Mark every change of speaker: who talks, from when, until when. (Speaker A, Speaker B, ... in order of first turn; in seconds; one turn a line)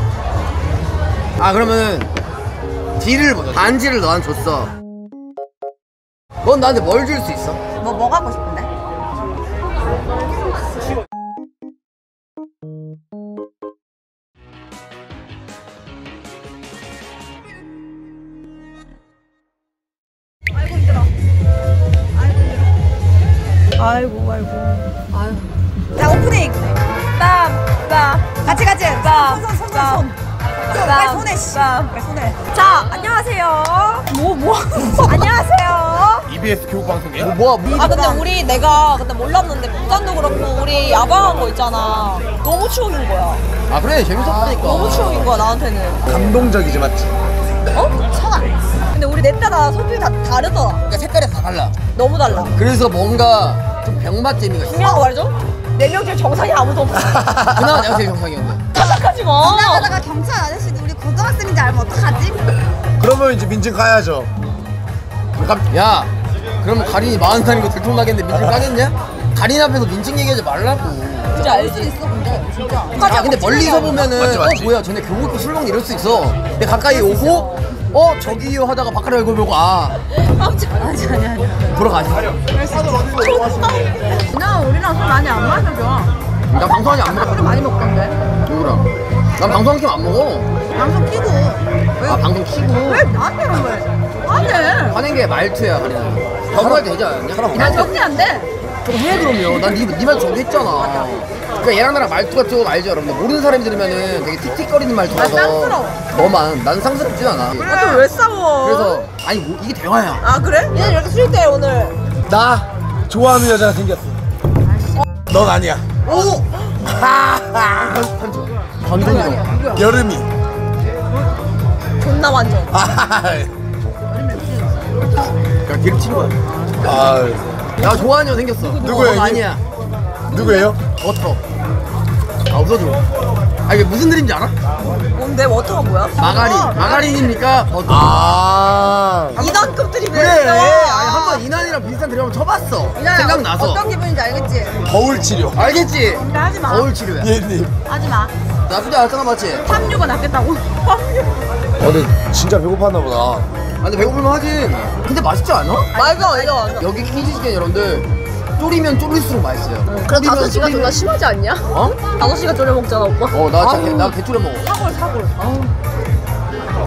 Speaker A: 1.4-2.1
Speaker A: 3.0-4.7
Speaker A: 6.4-7.6
Speaker B: 7.8-8.7
Speaker B: 22.1-22.6
Speaker C: 23.8-24.8
Speaker B: 23.8-25.4
Speaker B: 25.9-26.8
Speaker C: 27.1-30.0
Speaker B: 28.4-30.1
Speaker C: 30.7-31.9
Speaker B: 30.7-32.4
Speaker C: 32.5-34.1
Speaker B: 34.1-35.4
Speaker C: 35.0-36.3
Speaker D: 36.3-37.4
Speaker A: 37.2-37.9
Speaker B: 37.7-38.3
Speaker C: 37.7-43.4
Speaker A: 43.7-45.2
Speaker B: 44.2-44.6
Speaker C: 44.5-46.0
Speaker D: 46.0-47.1
Speaker B: 48.1-48.5
Speaker C: 48.9-50.8
Speaker A: 50.9-51.8
Speaker C: 51.9-52.5
Speaker A: 52.5-55.1
Speaker C: 54.6-57.3
Speaker D: 57.0-58.0
Speaker A: 57.5-58.6
Speaker C: 58.7-59.9
Speaker B: 59.4-62.4
Speaker D: 63.0-64.3
Speaker D: 65.4-65.6
Speaker A: 65.7-66.1
Speaker A: 66.6-71.6
Speaker C: 71.3-71.9
Speaker B: 71.4-73.3
Speaker C: 72.9-74.1
Speaker A: 73.0-80.0
Speaker D: 74.0-74.7
Speaker B: 76.9-77.5
Speaker C: 80.3-80.7
Speaker B: 80.6-81.8
Speaker A: 81.7-82.4
Speaker B: 82.5-83.2
Speaker C: 83.0-84.2
Speaker B: 84.3-86.1
Speaker A: 86.5-87.5
Speaker B: 87.1-88.2
Speaker A: 88.5-90.5
Speaker B: 90.7-92.2
Speaker A: 92.0-93.1
Speaker B: 92.8-95.0
Speaker A: 94.8-97.9
Speaker D: 96.5-97.9
Speaker B: 97.5-98.5
Speaker A: 98.8-107.9
Speaker B: 105.1-106.1
Speaker B: 107.6-108.1
Speaker C: 107.6-109.0
Speaker A: 108.6-110.2
Speaker C: 110.2-112.0
Speaker D: 112.3-114.2
Speaker B: 114.6-115.0
Speaker D: 115.3-116.0
Speaker A: 116.1-116.4
Speaker D: 116.8-117.9
Speaker A: 117.8-119.5
Speaker C: 119.0-119.4
Speaker B: 119.0-119.8
Speaker D: 119.7-120.3
Speaker C: 122.0-122.8
Speaker D: 122.7-123.5
Speaker B: 124.1-124.9
Speaker A: 125.7-126.3
Speaker D: 126.8-127.5
Speaker A: 127.8-129.6
Speaker C: 128.7-128.9
Speaker D: 128.7-129.5
Speaker D: 130.3-130.8
Speaker A: 130.9-131.4
Speaker A: 132.5-133.0
Speaker A: 133.7-134.6
Speaker C: 135.1-137.1
Speaker A: 136.2-138.2
Speaker B: 136.2-137.3
Speaker D: 137.9-139.4
Speaker C: 139.3-141.4
Speaker A: 140.1-143.8
Speaker B: 142.9-144.8
Speaker D: 144.8-145.6
Speaker A: 145.5-147.3
Speaker B: 145.6-146.9
Speaker D: 147.2-147.7
Speaker B: 147.8-148.3
Speaker A: 148.7-149.7
Speaker B: 149.6-151.0
Speaker D: 151.8-153.5
Speaker A: 153.8-155.9
Speaker B: 155.9-156.7
Speaker C: 155.9-156.9
Speaker A: 156.7-161.0
Speaker C: 159.8-165.7
Speaker A: 161.7-162.0
Speaker A: 163.3-164.7